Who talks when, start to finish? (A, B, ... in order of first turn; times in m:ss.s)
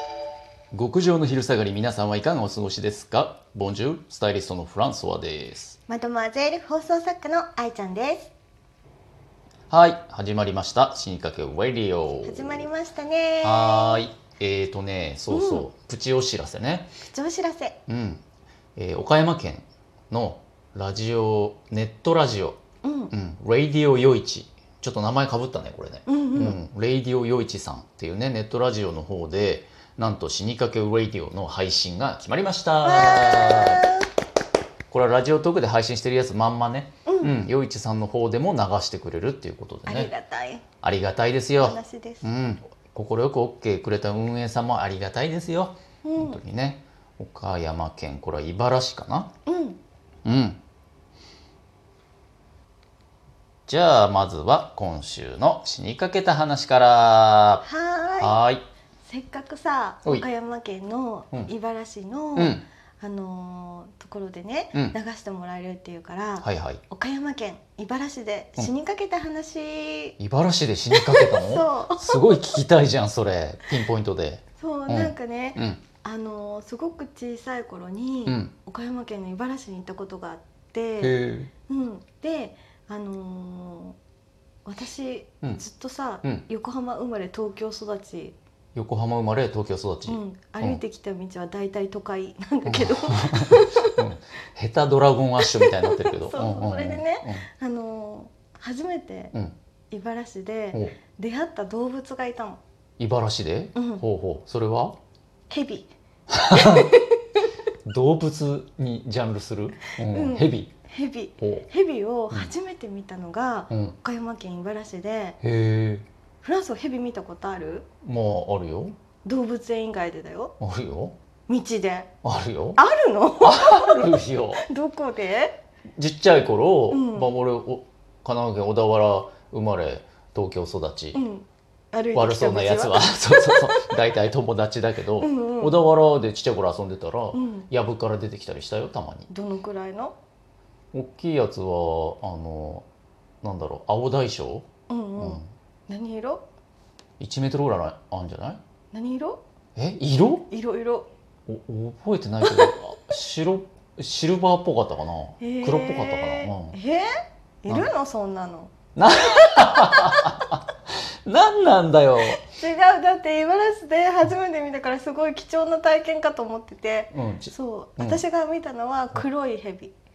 0:00.7-0:05.8 A
0:05.9-0:08.3 B
0:09.7-0:12.7 A
0:12.2-0:14.1 B
0:13.4-0:16.9 A
0:15.3-0:15.7 B
0:17.0-0:17.8 B
0:17.9-0:18.2 A
0:18.8-0:22.6 A
0:22.8-0:23.1 B
0:23.1-0:33.9 A
0:26.0-0:26.6 B
0:32.8-0:34.1 B
0:34.9-0:40.1 A
0:37.0-0:37.4 B
0:39.8-0:40.6 B
0:40.8-0:49.3 A
0:41.6-0:42.2 B
0:46.0-0:46.4 B
0:49.4-0:49.8 B
0:50.2-0:50.6 A
0:53.7-0:57.6 A
0:57.6-0:58.3 B
0:58.2-0:58.6 A
0:59.0-1:10.1 B
1:02.4-1:02.6 A
1:06.4-1:06.8 A
1:10.2-1:15.8 A
1:10.9-1:12.5 B
1:14.6-1:21.2 B
1:18.2-1:18.5 A
1:21.0-1:21.5 A
1:21.7-1:24.0 B
1:24.6-1:28.4 B
1:28.7-1:30.8 A
1:30.1-1:34.0 B
1:32.6-1:37.4 A
1:35.4-1:39.3 B
1:39.9-1:42.6 B
1:43.0-1:45.0 A
1:43.7-1:44.0 B
1:45.5-1:45.9 B
1:46.3-1:46.9 A
1:46.5-1:47.5 B
1:47.8-1:50.7 A
1:50.0-1:55.4 B
1:51.4-1:51.7 A
1:53.7-1:54.0 A
1:55.4-1:56.1 A
1:56.4-1:57.9 B
1:58.0-1:59.0 A
1:59.2-2:00.5 B
2:00.6-2:01.1 A
2:01.5-2:02.1 B
2:02.2-2:02.8 A
2:02.8-2:05.6 B
2:03.4-2:04.6 A
2:06.0-2:11.2 A
2:06.9-2:07.3 B
2:11.1-2:13.9 B
2:12.1-2:19.3 A
2:15.2-2:15.8 B
2:17.3-2:17.7 B
2:19.3-2:20.2 B
2:20.9-2:22.9 A
2:23.4-2:24.7 A
2:24.9-2:26.4 B
2:25.2-2:25.4 A
2:27.2-2:28.6 A
2:28.9-2:29.4 B
2:29.8-2:30.5 A
2:30.5-2:31.1 B
2:31.5-2:36.8 A
2:32.4-2:32.7 B
2:35.4-2:38.7 B
2:39.0-2:40.6 A
2:39.6-2:40.4 B
2:41.2-2:42.4 A
2:42.4-2:49.9 B
2:47.1-2:48.2 A